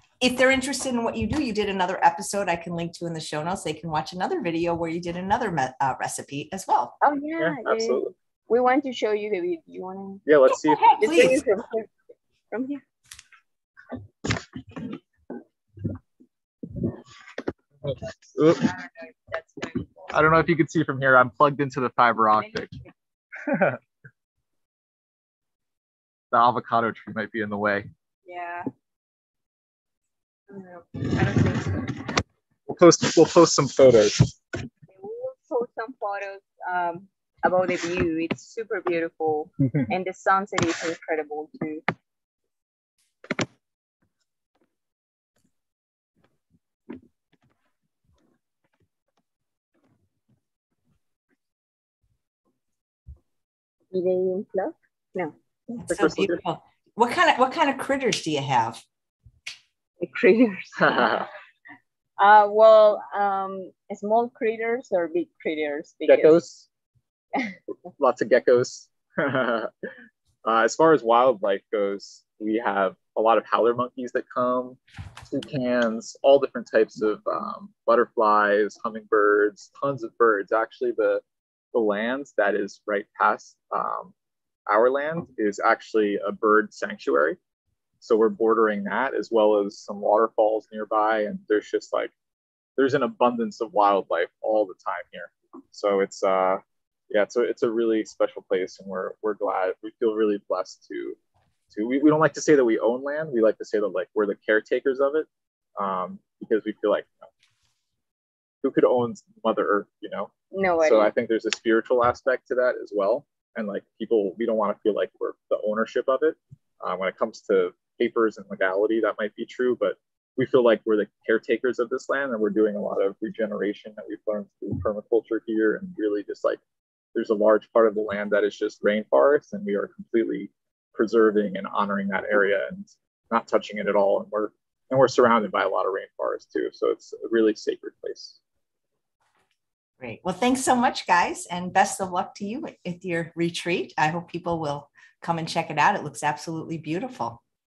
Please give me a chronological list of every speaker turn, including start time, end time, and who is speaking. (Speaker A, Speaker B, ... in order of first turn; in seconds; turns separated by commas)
Speaker A: 0.2-7.0, Speaker B: 7.0-10.3, Speaker C: 7.4-8.1, Speaker C: 10.3-11.4, Speaker B: 10.8-11.9, Speaker A: 11.0-11.4, Speaker B: 12.5-12.8, Speaker C: 17.9-18.6, Speaker B: 18.3-20.2, Speaker C: 20.1-22.7, Speaker B: 22.4-22.9, Speaker C: 23.4-23.8, Speaker C: 26.3-27.9, Speaker B: 28.3-28.7, Speaker B: 30.5-32.0, Speaker C: 32.7-34.4, Speaker B: 34.9-41.8, Speaker B: 53.9-55.3, Speaker C: 55.7-56.4, Speaker A: 55.8-58.8, Speaker B: 60.0-61.3, Speaker C: 60.8-61.3, Speaker B: 62.2-66.4, Speaker C: 66.1-66.7, Speaker C: 68.0-69.7, Speaker C: 70.4-84.1, Speaker C: 84.7-87.4, Speaker C: 88.0-92.1, Speaker C: 92.8-101.2, Speaker C: 101.7-107.3, Speaker C: 108.6-126.6, Speaker B: 110.5-111.1, Speaker C: 127.1-138.4, Speaker A: 140.0-147.4